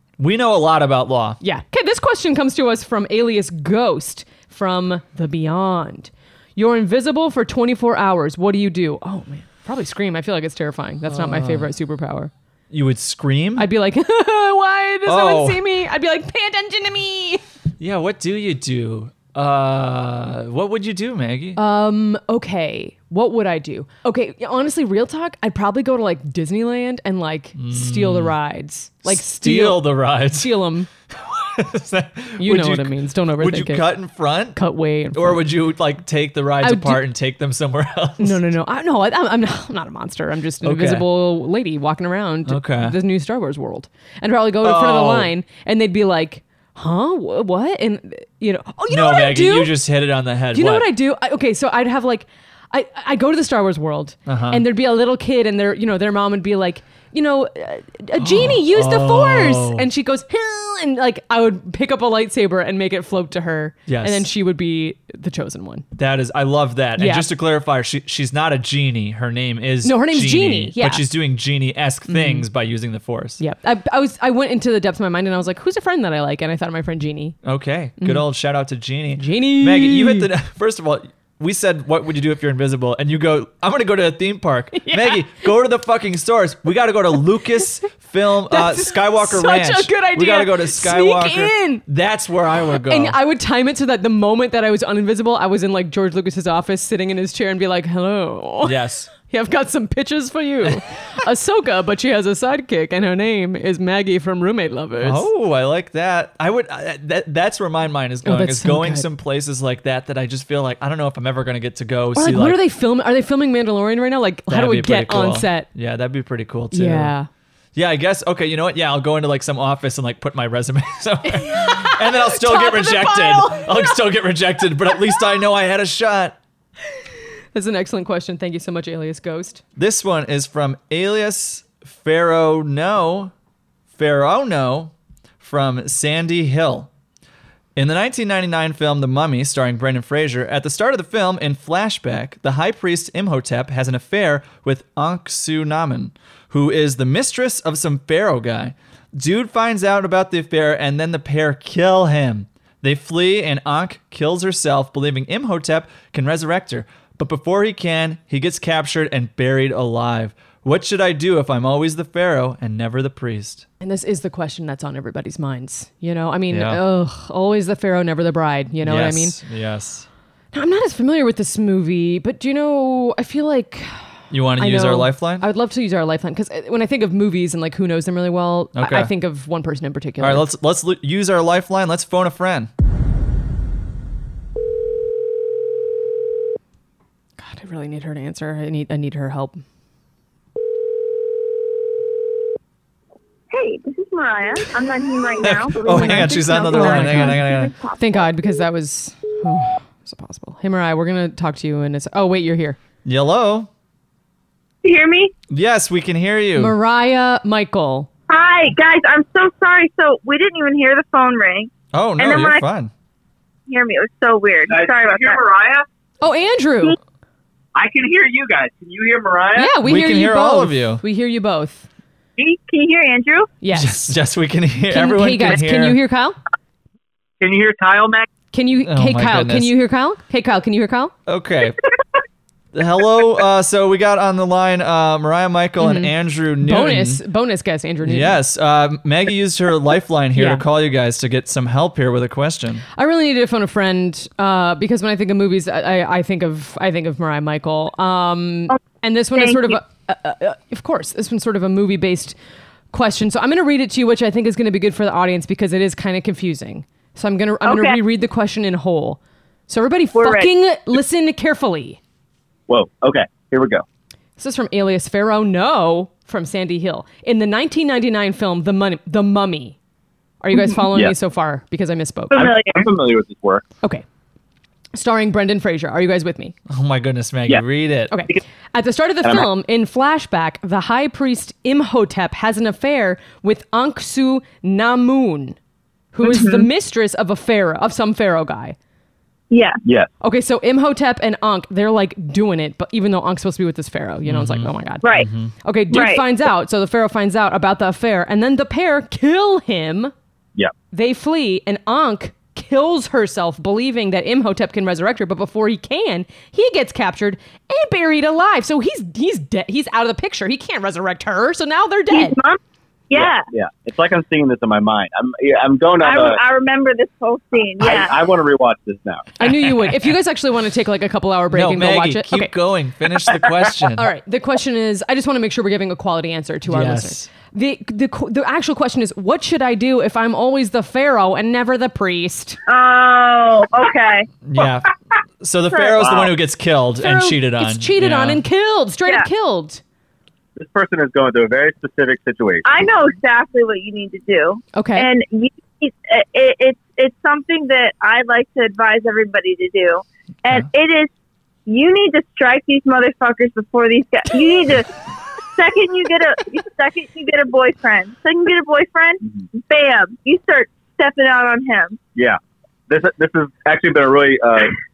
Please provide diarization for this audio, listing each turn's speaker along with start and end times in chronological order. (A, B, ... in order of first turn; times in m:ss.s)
0:00.2-0:01.4 A
0:01.4-0:12.3 B
0:11.1-0:11.7 A
0:12.7-0:13.7 A
0:13.6-0:17.4 B
0:15.1-0:15.6 A
0:17.8-0:21.6 A
0:21.6-0:30.9 B
0:27.6-0:28.4 A
0:29.0-0:30.5 A
0:31.2-0:34.6 A
0:32.4-0:33.9 B
0:34.6-0:35.4 B
0:35.1-0:38.4 A
0:36.6-0:37.1 B
0:38.2-0:49.8 B
0:40.6-0:41.1 A
0:42.5-0:43.0 A
0:44.6-0:45.3 A
0:48.9-0:50.9 A
0:50.5-1:05.9 B
0:54.3-0:54.6 A
0:58.2-0:59.9 A
1:03.9-1:04.3 A
1:05.9-1:13.4 A
1:07.0-1:07.3 B
1:09.8-1:11.1 B
1:12.1-1:12.5 B
1:13.4-1:17.4 B
1:17.4-1:33.2 A
1:18.0-1:18.2 B
1:19.2-1:20.3 B
1:24.8-1:25.3 B
1:28.5-1:31.8 B
1:32.8-1:45.3 B
1:38.6-1:39.1 A
1:45.0-1:52.6 A
1:48.2-1:49.1 B
1:52.2-1:55.7 B
1:54.5-1:57.1 A
1:56.7-1:57.3 B
1:57.8-2:06.4 A
2:01.3-2:04.0 B
2:07.5-2:09.6 B
2:09.8-2:13.3 A
2:14.0-2:16.9 A
2:17.8-2:43.7 A
2:43.8-2:49.4 B
2:46.5-2:46.8 A
2:48.8-2:50.1 A
2:50.5-2:54.0 B
2:54.3-2:55.4 A
2:54.6-3:00.5 B
2:58.8-2:59.1 A
3:00.2-3:02.7 A
3:07.4-3:09.6 B
3:13.5-3:18.2 C
3:15.4-3:17.7 A
3:15.8-3:17.4 B
3:18.0-3:22.8 B
3:23.0-3:23.7 A
3:24.8-3:25.3 C
3:25.5-3:26.8 A
3:26.6-3:28.1 B
3:28.3-3:32.6 C
3:31.9-3:32.9 A
3:33.7-3:35.4 C
3:34.7-3:35.9 D
3:36.2-3:37.0 B
3:37.8-3:39.8 D
3:39.6-3:41.9 B
3:39.8-3:41.0 A
3:42.4-3:43.5 C
3:43.6-3:44.2 B
3:43.7-3:46.0 A
3:44.9-3:46.4 B
3:47.4-3:48.3 D
3:48.5-3:51.1 B
3:48.8-3:49.7 A
3:51.3-3:51.8 A
3:52.7-3:57.2 A
3:55.8-3:58.4 B
3:58.0-4:02.8 A
4:00.4-4:00.6 B
4:03.0-4:12.4 B
4:09.4-4:09.8 C
4:12.9-4:22.0 B
4:17.6-4:18.0 C
4:20.2-4:20.5 C
4:22.7-4:23.8 D
4:24.4-4:29.8 B
4:30.4-4:32.5 B
4:32.3-4:32.8 C
4:32.3-4:33.6 D
4:34.9-4:36.6 B
4:36.7-4:38.1 A
4:38.1-4:45.6 B
4:46.1-4:48.8 B
4:46.2-4:46.7 C
4:49.5-4:49.8 C
4:49.8-4:50.1 D
4:50.2-4:55.1 B
4:54.3-4:55.5 A
4:55.0-4:55.3 C
4:55.6-5:00.1 B
4:55.9-4:56.2 C
5:00.9-5:12.4 B
5:12.1-5:13.5 C
5:13.1-5:16.4 D
5:16.0-5:18.3 C
5:17.8-5:19.3 D
5:19.4-5:22.5 B
5:21.5-5:24.1 A
5:24.0-5:32.6 B
5:26.7-5:27.3 A
5:32.7-5:34.3 C
5:34.4-5:34.9 A
5:35.4-5:38.4 A
5:35.7-5:36.0 C
5:36.0-5:36.3 D
5:37.0-5:39.8 B
5:40.6-5:42.7 D
5:42.6-5:51.1 C
5:44.7-5:45.1 B
5:51.7-5:54.9 C
5:55.5-6:02.0 C
6:02.2-6:04.8 D